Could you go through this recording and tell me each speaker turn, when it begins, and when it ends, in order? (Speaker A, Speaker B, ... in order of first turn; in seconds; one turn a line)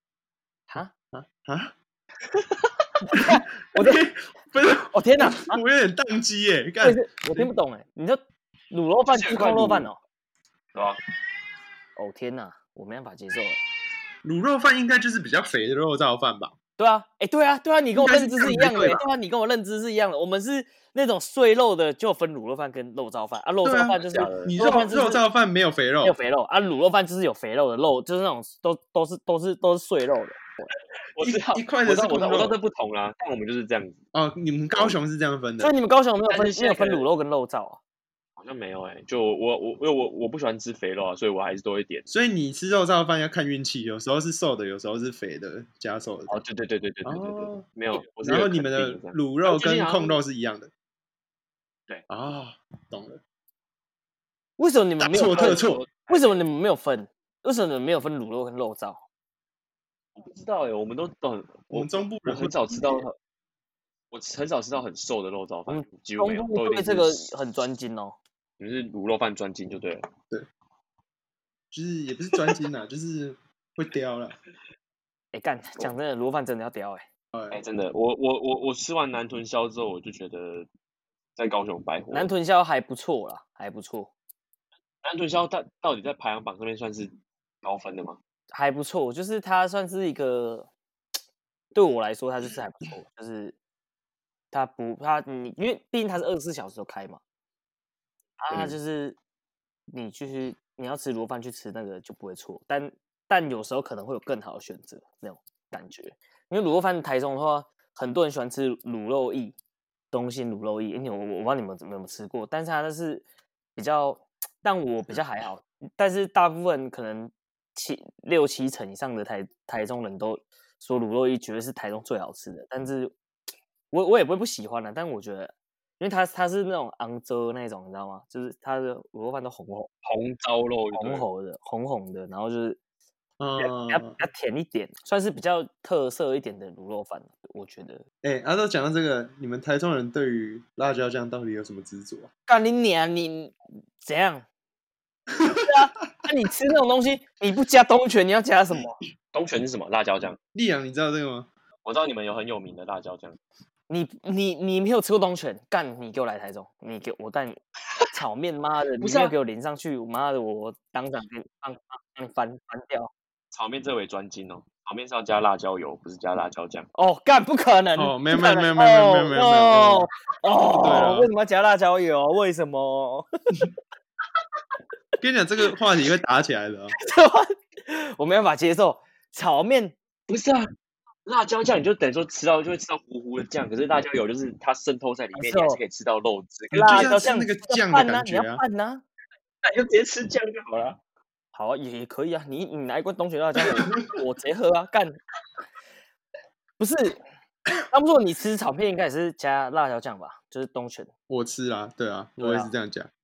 Speaker A: 1.1-1.7
Speaker B: 3.1-4.0
Speaker A: 3.1-7.5
Speaker B: 4.9-5.6
Speaker B: 6.8-8.2
Speaker B: 8.7-10.0
Speaker C: 9.1-9.9
Speaker C: 10.7-11.0
Speaker B: 12.0-13.6
Speaker A: 14.2-16.5
Speaker B: 16.8-25.2
Speaker A: 17.9-19.1
Speaker A: 23.6-26.2
Speaker C: 24.0-24.5
Speaker B: 26.0-30.7
Speaker C: 31.1-34.0
Speaker A: 31.2-32.6
Speaker A: 34.1-35.7
Speaker B: 35.6-37.8
Speaker C: 36.3-37.0
Speaker C: 38.4-42.1
Speaker A: 42.1-46.4
Speaker C: 46.3-50.2
Speaker A: 47.0-50.7
Speaker A: 52.1-53.2
Speaker B: 54.6-59.0
Speaker A: 55.0-55.8
Speaker C: 55.2-56.2
Speaker C: 60.2-63.2
Speaker A: 61.7-63.1
Speaker C: 64.1-67.3
Speaker B: 65.7-68.2
Speaker C: 68.6-70.1
Speaker A: 71.7-74.4
Speaker B: 75.3-77.1
Speaker A: 77.3-77.6
Speaker C: 77.5-80.7
Speaker C: 81.4-82.3
Speaker B: 82.1-84.1
Speaker C: 85.0-88.2
Speaker B: 88.5-90.7
Speaker B: 91.7-93.6
Speaker B: 94.5-97.2
Speaker B: 98.4-99.2
Speaker B: 99.9-109.6
Speaker B: 110.1-123.2
Speaker B: 123.9-129.9
Speaker C: 130.1-131.2
Speaker B: 130.9-132.8
Speaker A: 133.4-134.2
Speaker B: 133.6-138.1
Speaker A: 138.2-142.3
Speaker B: 142.5-144.5
Speaker B: 145.5-149.0
Speaker C: 149.3-150.4
Speaker A: 150.5-151.5
Speaker C: 151.8-153.4
Speaker B: 153.9-157.6
Speaker B: 158.1-163.1
Speaker C: 159.0-159.3
Speaker C: 163.5-166.9
Speaker B: 166.9-173.7
Speaker A: 167.9-170.1
Speaker A: 170.8-171.3
Speaker A: 175.2-177.0
Speaker B: 177.0-179.9
Speaker C: 180.3-180.7
Speaker C: 181.3-187.2
Speaker B: 185.3-185.8
Speaker A: 186.7-188.6
Speaker B: 186.7-189.0
Speaker C: 189.6-191.0
Speaker B: 191.5-195.2
Speaker B: 196.8-197.2
Speaker B: 197.9-201.1
Speaker A: 201.3-203.1
Speaker B: 202.4-202.7